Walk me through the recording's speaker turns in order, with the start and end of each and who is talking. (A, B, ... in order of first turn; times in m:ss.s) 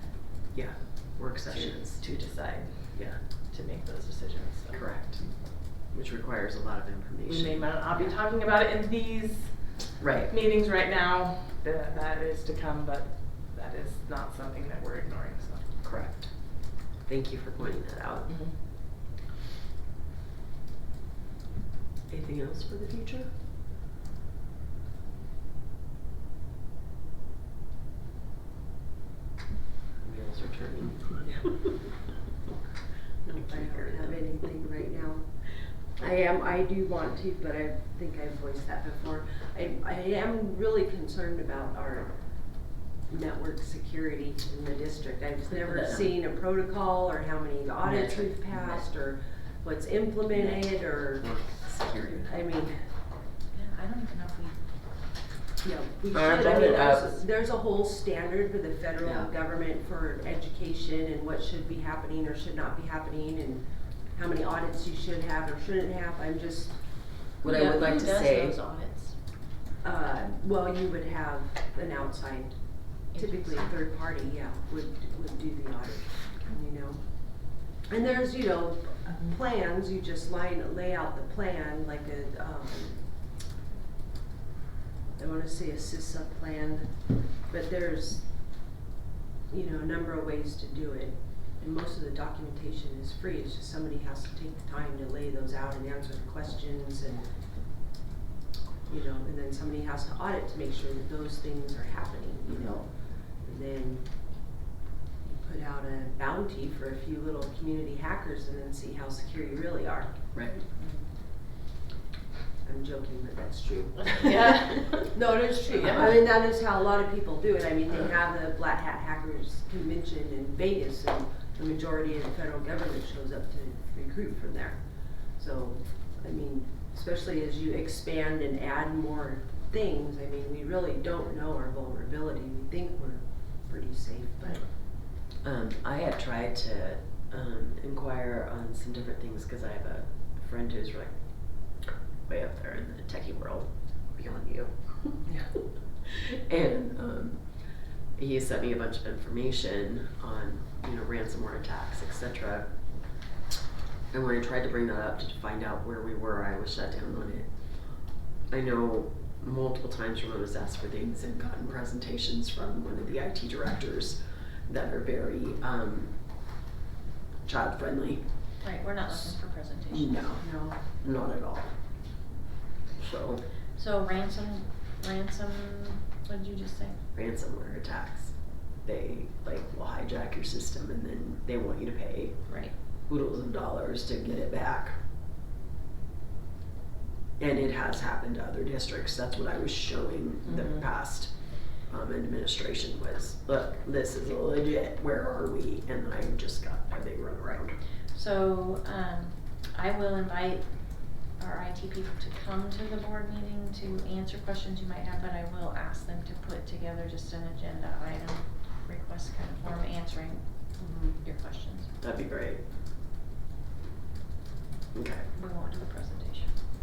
0:00.5-0:03.2 A
0:01.5-0:05.3 B
0:04.7-0:08.2 A
0:07.3-0:15.7 B
0:10.0-0:10.3 A
0:15.8-0:18.4 A
0:18.3-0:18.6 B
0:22.1-0:23.3 A
0:30.0-0:31.4 A
0:33.3-0:34.2 A
0:33.3-0:35.3 C
0:36.0-0:51.4 C
0:45.5-0:46.2 A
0:47.8-0:48.9 A
0:50.3-0:52.7 A
0:52.2-0:52.8 C
0:53.5-0:54.6 D
0:55.6-1:06.8 C
0:56.1-0:57.2 A
0:59.0-0:59.3 A
1:07.4-1:08.6 A
1:07.4-1:09.1 D
1:09.8-1:23.1 C
1:13.1-1:13.7 D
1:25.2-1:28.5 C
1:29.5-1:37.3 C
1:38.9-1:44.4 C
1:45.2-1:50.2 C
1:50.3-1:50.6 A
1:52.6-2:14.7 C
1:54.0-1:55.1 B
1:55.7-1:56.1 B
1:55.8-1:56.2 A
2:15.4-2:25.4 A
2:26.3-2:32.7 A
2:34.1-2:37.6 A
2:38.5-2:46.2 A
2:47.4-2:48.3 A
2:48.6-2:50.2 D
2:49.9-2:51.8 A
2:50.4-2:50.8 C
2:53.0-2:53.4 A
2:53.8-2:57.0 D
2:57.2-3:02.4 A
3:02.5-3:02.7 D
3:03.1-3:05.0 A
3:07.4-3:17.8 A
3:10.5-3:10.8 B
3:18.1-3:30.4 D
3:30.8-3:31.2 C
3:31.2-3:31.9 D
3:32.0-3:32.6 A
3:34.9-3:35.3 A
3:35.3-3:36.6 D